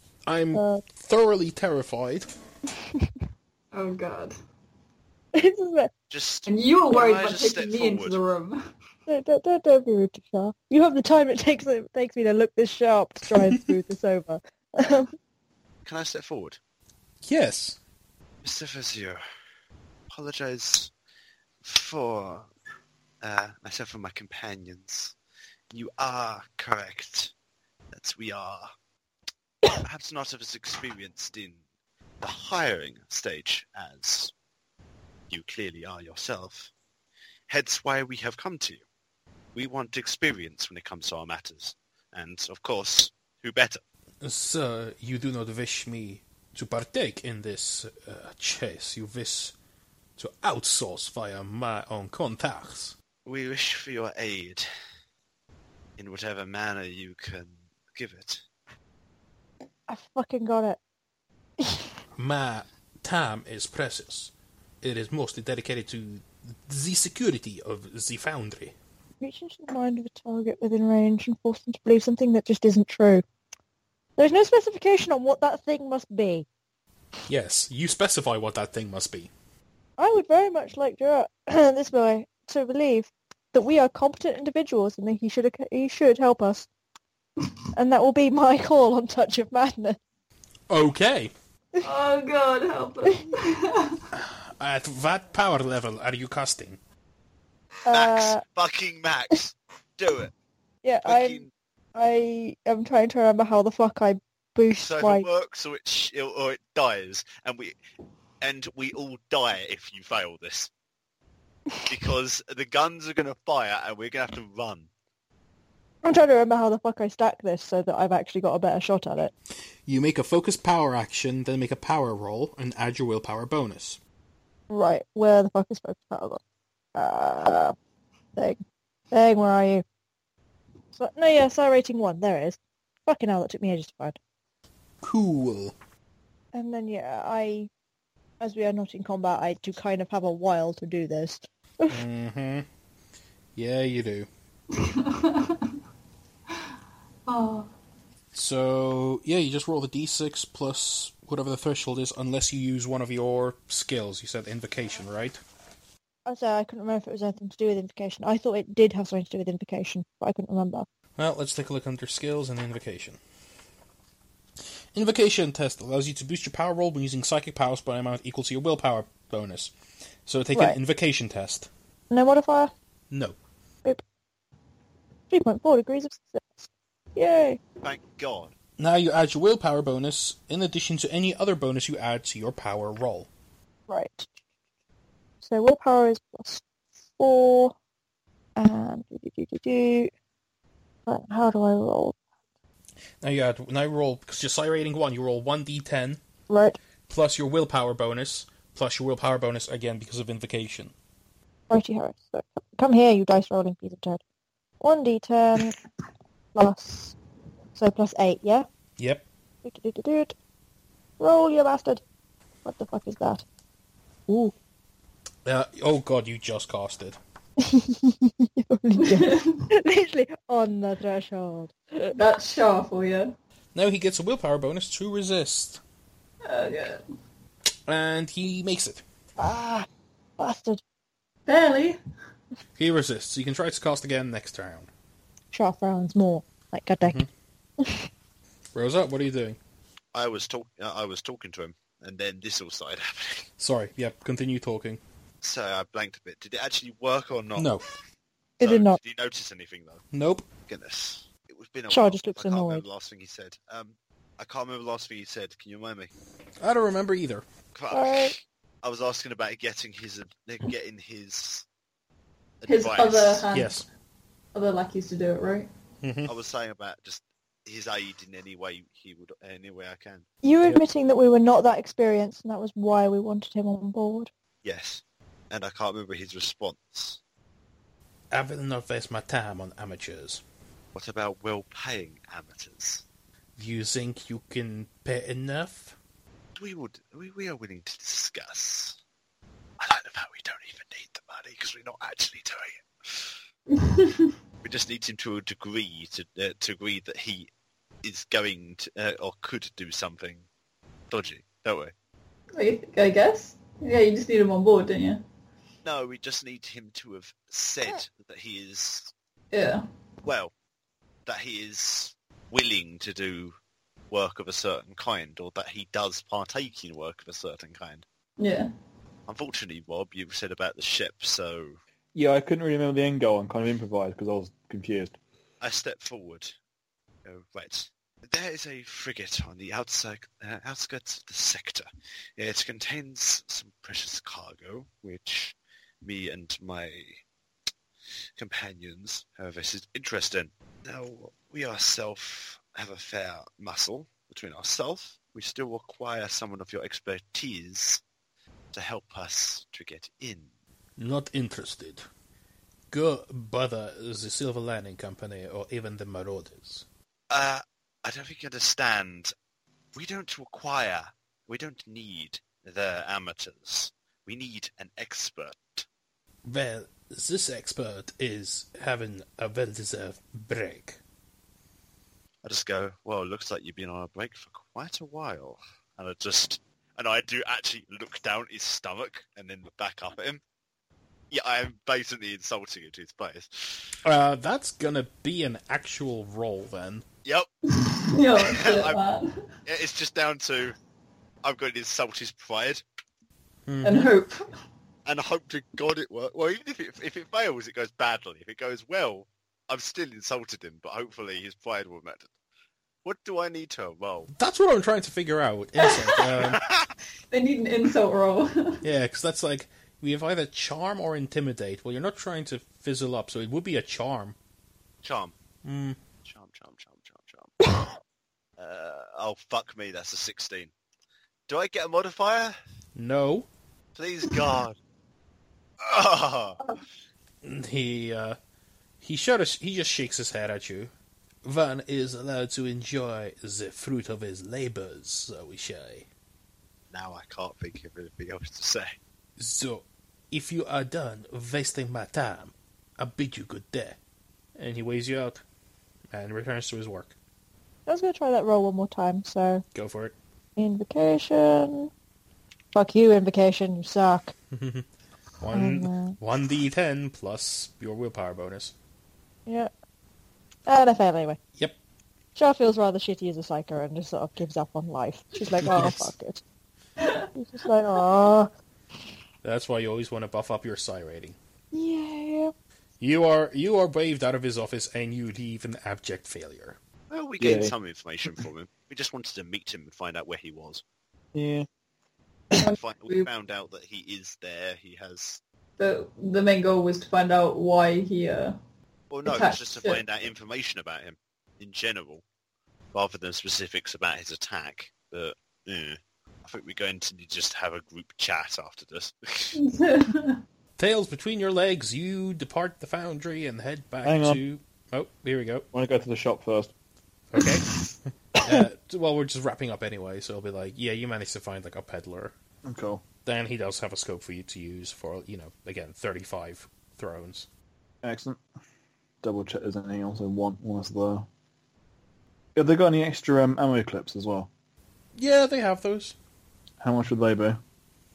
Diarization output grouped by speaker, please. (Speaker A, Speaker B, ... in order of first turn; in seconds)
Speaker A: 0.2-2.3, 17.2-17.8, 44.2-49.5, 50.2-53.0, 62.2-68.7, 77.3-79.3, 90.7-91.3, 94.1-96.8, 119.8-124.0, 135.0-135.8, 141.9-142.7, 143.6-144.3, 148.3-155.4, 161.2-163.2, 164.9-169.7, 170.2-171.7, 173.1-173.4, 178.8-183.3, 193.2-196.2, 197.1-200.9, 209.0-209.3, 215.4-217.2, 223.7-225.8, 227.9-229.0, 232.8-234.9, 238.7-239.6, 243.6-245.0, 247.5-247.8, 250.1-250.5, 256.6-257.4, 263.5-263.8, 266.0-266.3, 278.3-280.4, 283.6-285.9, 351.0-352.0, 352.9-356.9, 366.4-371.0, 384.0-387.0, 393.7-394.1, 404.3-406.6, 408.8-414.4, 415.6-416.0, 422.9-423.5, 427.4-428.4, 429.0-430.9, 431.4-436.1, 439.4-444.0, 444.6-445.4, 446.1-447.1, 449.7-450.1, 454.5-454.8, 455.4-458.7, 465.6-466.1, 469.4-471.4, 473.0-476.8, 500.8-505.6, 507.3-512.3, 513.2-517.5, 525.1-526.1
Speaker B: 0.5-0.8, 5.3-5.9, 9.1-15.1, 59.9-60.8, 61.6-61.9, 69.2-73.2, 74.2-76.5, 80.0-86.7, 87.7-90.0, 97.9-98.4, 100.8-105.3, 116.0-119.3, 124.7-126.4, 126.9-127.7, 129.1-129.8, 131.0-134.2, 136.5-137.7, 138.4-142.0, 156.3-160.8, 172.1-172.7, 175.3-177.6, 183.9-184.3, 185.4-187.7, 188.6-190.1, 191.1-192.2, 196.5-196.8, 201.7-204.2, 204.8-205.8, 206.5-207.2, 207.8-208.7, 209.6-210.3, 211.2-212.0, 212.6-213.4, 214.3-214.5, 217.6-222.1, 229.4-229.8, 230.4-230.8, 235.5-237.2, 237.8-238.1, 248.6-249.0, 251.9-252.8, 257.9-258.3, 270.4-274.3, 447.9-449.6, 450.6-451.9, 452.7-454.3, 455.5-456.2, 460.7-461.4, 462.3-466.4, 467.3-468.5, 471.7-472.5
Speaker C: 3.7-4.3, 6.5-8.6, 91.8-94.0, 144.7-145.7, 147.3-147.7, 219.0-219.6, 222.1-223.3, 226.4-227.0, 231.5-232.0, 262.7-263.8, 264.5-265.7, 293.7-294.3, 302.5-305.2, 309.5-309.8, 318.4-318.7, 387.7-389.3, 393.8-394.4, 407.3-408.8, 482.5-483.3, 485.8-488.6, 489.2-490.0, 499.6-500.4
Speaker D: 6.1-8.2, 15.8-16.6, 18.4-19.2, 20.1-20.9, 21.6-22.5, 23.2-25.1, 25.7-27.3, 27.9-28.7, 29.8-31.6, 32.2-34.3, 35.3-36.7, 37.5-38.8, 39.5-43.8, 53.2-54.6, 56.0-58.4, 97.9-100.3, 101.0-101.5, 104.7-107.8, 108.4-110.7, 111.9-114.9, 177.8-178.5, 240.1-243.5, 245.4-247.7, 248.6-250.0, 250.7-256.1, 257.7-261.6, 262.6-263.5, 266.2-270.2, 274.6-277.2, 280.9-283.0, 286.6-289.0, 289.8-293.3, 294.6-297.5, 298.0-300.4, 301.1-301.9, 305.8-309.1, 310.2-310.5, 311.2-313.5, 314.1-318.0, 319.3-321.8, 325.6-326.5, 327.2-337.2, 338.4-348.0, 348.7-350.5, 357.3-359.3, 359.9-365.8, 372.4-380.4, 381.3-383.9, 388.3-389.0, 389.6-390.7, 391.4-392.8, 395.1-402.3, 403.0-404.3, 406.4-406.9, 415.0-415.4, 416.2-417.5, 418.6-420.7, 421.5-422.6, 423.9-424.8, 425.8-426.7, 436.9-438.9, 477.1-480.8, 482.7-485.4, 489.1-492.2, 492.9-499.6
Speaker E: 322.1-325.2, 477.4-477.7, 481.3-481.7, 504.0-504.4, 505.7-506.7, 512.6-513.0, 518.0-518.4, 519.2-521.3, 522.5-524.5, 526.8-527.6